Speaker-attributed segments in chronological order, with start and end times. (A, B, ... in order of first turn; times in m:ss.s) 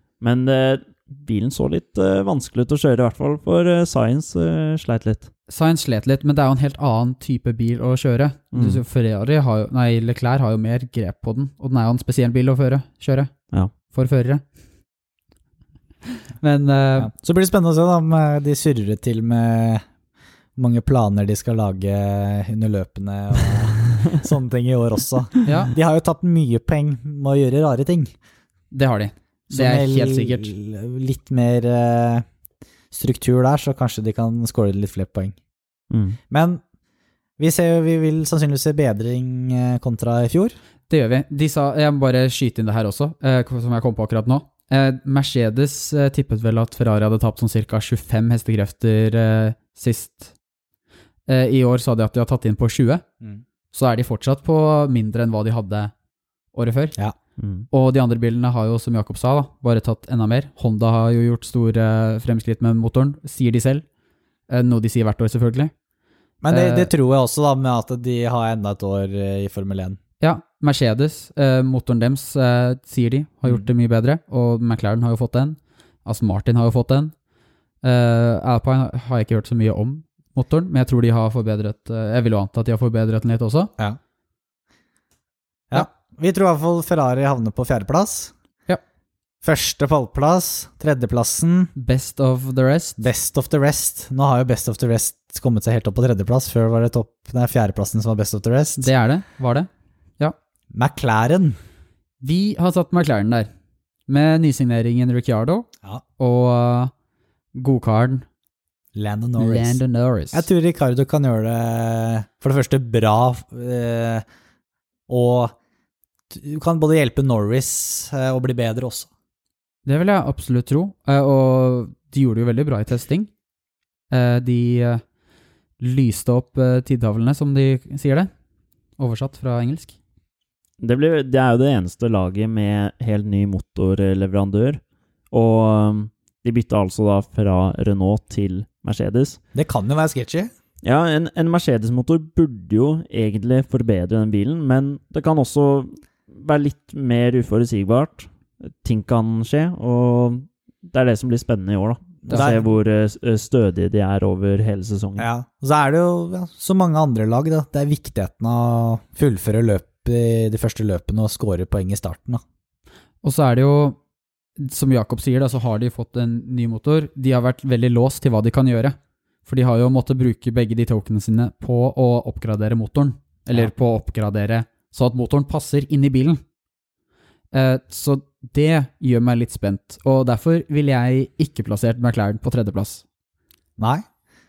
0:00.2-0:05.3 A
0:05.5-0:13.3 B
0:08.5-0:08.8 A
0:13.9-0:14.4 B
0:16.4-0:17.1 B
0:17.0-0:19.8 C
0:20.6-0:28.1 C
0:25.5-0:25.7 B
0:28.7-0:30.5 B
0:29.5-0:32.3 C
0:32.9-0:35.4 C
0:35.9-0:36.2 A
0:36.3-0:36.6 C
0:37.4-0:40.6 C
0:40.9-0:50.3 B
0:51.3-0:53.0 B
0:53.7-0:55.9 B
0:56.5-0:57.0 B
0:57.4-0:57.7 A
0:57.7-1:03.8 B
1:04.5-1:05.7 B
1:06.4-1:10.0 C
1:06.5-1:06.9 B
1:10.2-1:17.1 B
1:17.8-1:23.7 B
1:25.7-1:28.3 C
1:29.4-1:31.7 C
1:31.8-1:33.1 B
1:33.0-1:38.9 C
1:38.8-1:40.4 B
1:40.7-1:41.6 C
1:42.2-1:43.5 B
1:44.1-1:45.7 B
1:46.2-1:46.9 B
1:47.6-1:48.2 B
1:49.0-1:49.8 C
1:49.4-1:50.5 B
1:50.3-1:54.2 C
1:55.1-1:55.6 C
1:56.3-1:59.1 C
1:59.9-2:03.3 B
2:04.1-2:05.0 B
2:05.8-2:08.3 B
2:09.0-2:10.0 B
2:10.8-2:14.8 A
2:15.3-2:19.4 A
2:19.6-2:20.5 C
2:20.8-2:35.3 A
2:32.3-2:32.7 C
2:35.2-2:42.4 C
2:43.2-2:44.0 B
2:44.6-2:56.4 B
2:57.5-3:03.0 B
3:03.8-3:04.0 C